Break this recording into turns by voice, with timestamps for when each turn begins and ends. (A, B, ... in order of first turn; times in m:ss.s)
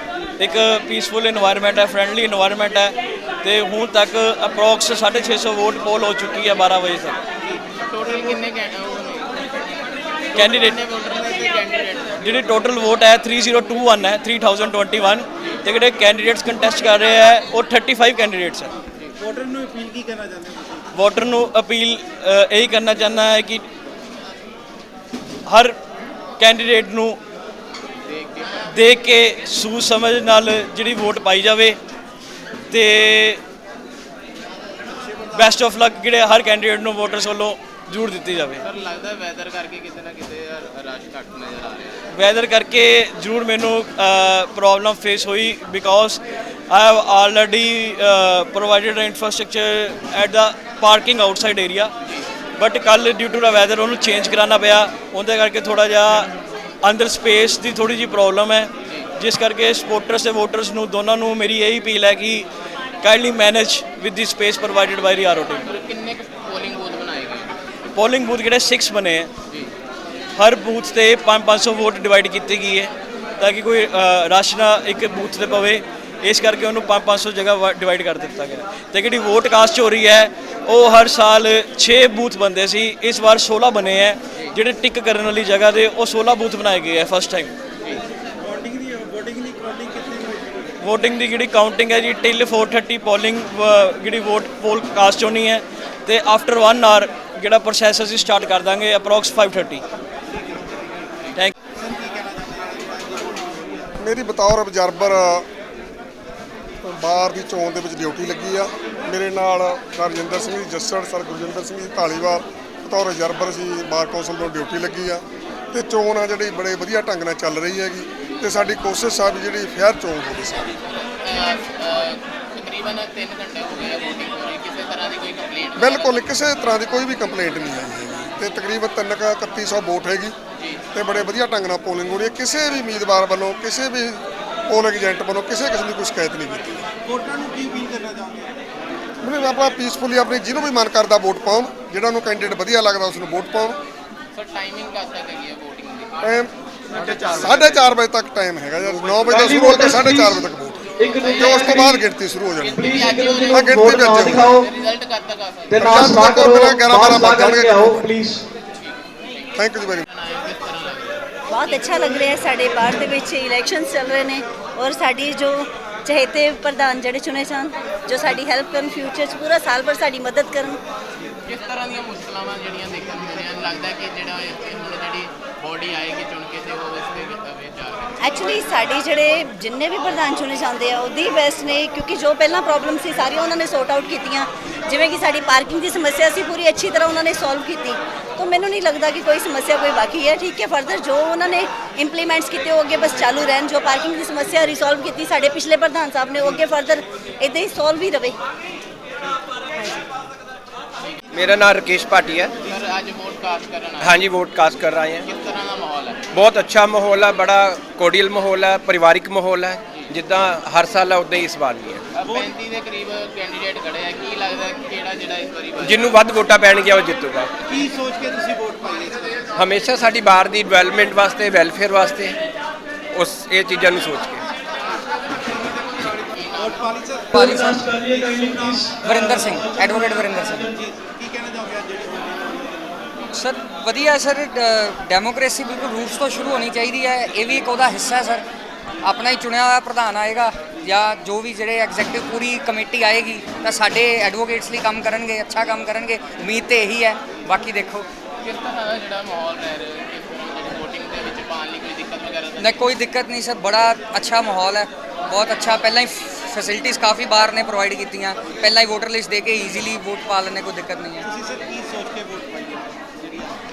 0:00.4-0:07.2 A
0:07.8-0:09.4 B
0:10.3-0:12.2 B
0:10.3-0:10.8 A
0:12.2-0:18.7 A
0:20.9-0:23.6 A
0:25.4-0:25.8 A
0:26.4-0:27.2 A
0:28.0-0:28.7 B
0:28.7-0:31.8 A
0:32.7-0:33.4 A
0:35.3-0:38.6 A
0:38.6-0:42.0 B
0:42.1-0:51.9 A
0:52.0-0:52.3 B
0:52.6-0:56.3 A
0:56.8-1:02.5 A
1:03.0-1:05.7 A
1:05.6-1:07.6 B
1:07.9-1:09.3 A
1:10.4-1:27.5 A
1:30.8-1:39.8 A
1:44.0-1:45.5 C
1:46.8-2:00.8 C
2:01.0-2:06.2 B
2:05.8-2:10.4 C
2:10.6-2:10.8 B
2:10.9-2:16.9 C
2:18.0-2:18.3 D
2:19.2-2:23.8 C
2:24.3-2:27.9 B
2:26.2-2:26.5 C
2:27.2-2:34.6 C
2:29.3-2:30.3 E
2:31.0-2:31.4 E
2:31.2-2:32.0 B
2:32.6-2:35.9 B
2:32.8-2:34.6 E
2:35.7-2:38.4 E
2:35.8-2:38.1 C
2:38.8-2:41.2 B
2:39.6-2:40.1 C
2:41.5-2:50.8 F
2:51.5-2:58.6 B
2:58.2-3:18.4 F
3:21.3-3:22.6 G
3:22.6-3:24.3 B
3:24.0-3:25.3 G
3:25.2-3:26.2 B
3:26.3-3:32.0 G
3:32.2-3:36.3 B
3:35.8-3:37.5 G
3:37.7-3:39.2 D
3:39.6-3:42.4 G
3:43.1-3:44.4 G
3:46.4-3:46.8 B
3:46.8-3:47.1 D
3:47.3-3:48.0 H
3:47.4-3:49.3 A
3:47.6-3:47.8 E
3:48.0-3:48.7 D
3:49.0-3:50.7 H
3:53.3-3:58.4 H
3:59.0-4:08.1 H
4:08.4-4:12.9 B
4:12.6-4:21.3 H
4:21.5-4:22.4 D